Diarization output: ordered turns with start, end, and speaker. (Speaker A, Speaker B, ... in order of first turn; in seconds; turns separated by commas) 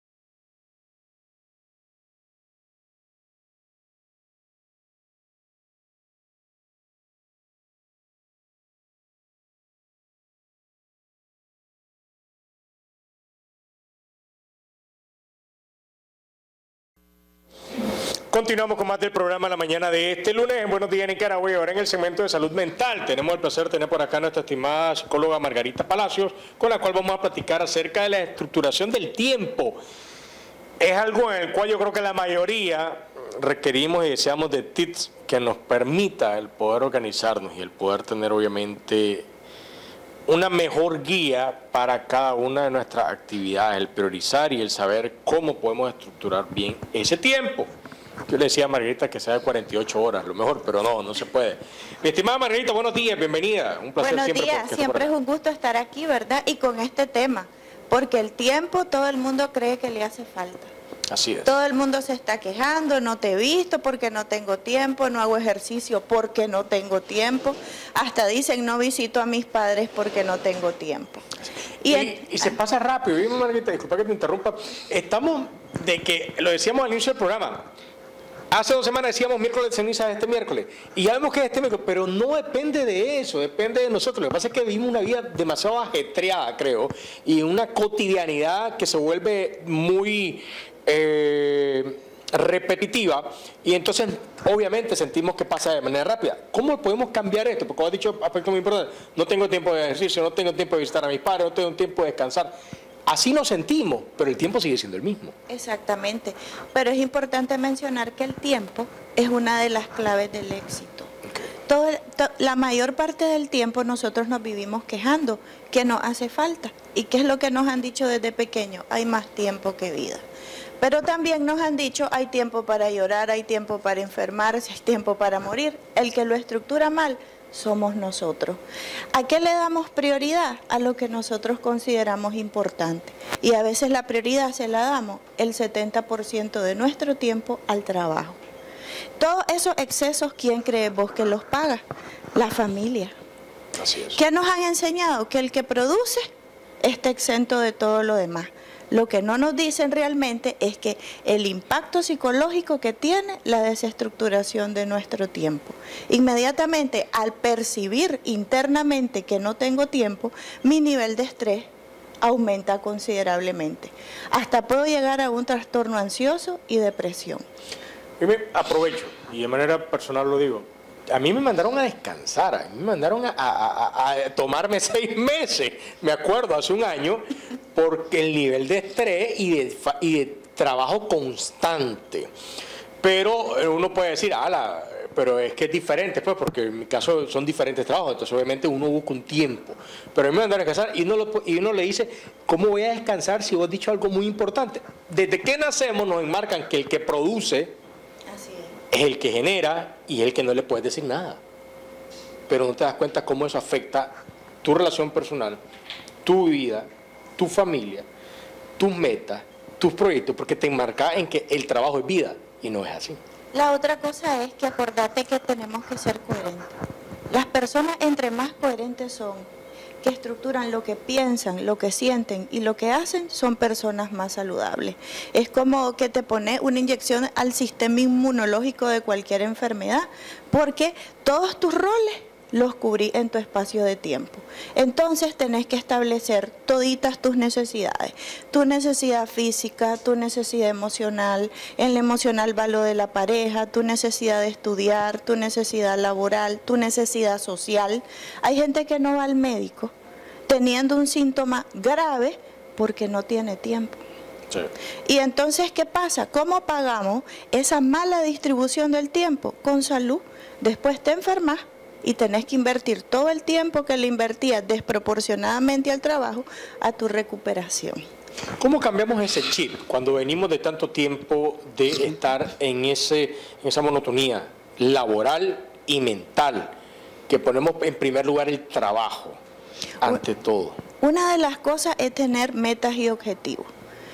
Speaker A: 18.3-29.8, Speaker A: 30.8-39.3, Speaker A: 40.3-47.7, Speaker A: 48.3-55.1, Speaker B: 54.0-60.7, Speaker A: 61.1-61.5, Speaker B: 61.5-71.2, Speaker B: 71.8-72.5, Speaker A: 71.8-77.7, Speaker A: 78.5-102.5, Speaker A: 103.1-105.3, Speaker B: 105.5-111.1, Speaker B: 111.7-120.2, Speaker B: 120.8-128.6, Speaker B: 129.1-138.4, Speaker B: 139.2-141.8, Speaker B: 142.3-143.1, Speaker A: 143.8-144.2, Speaker B: 144.2-146.2, Speaker B: 146.8-161.7, Speaker B: 162.2-167.4, Speaker A: 168.2-177.2, Speaker A: 177.7-182.3, Speaker A: 183.0-197.7, Speaker B: 198.3-198.8, Speaker A: 198.9-201.4, Speaker A: 202.5-205.6, Speaker A: 206.2-208.1, Speaker A: 208.8-213.2, Speaker B: 213.5-216.8, Speaker B: 217.3-219.5, Speaker B: 220.0-249.9, Speaker B: 250.5-254.0, Speaker B: 255.1-268.0, Speaker A: 268.6-276.7, Speaker A: 277.3-279.4, Speaker A: 280.0-280.8, Speaker B: 281.0-283.7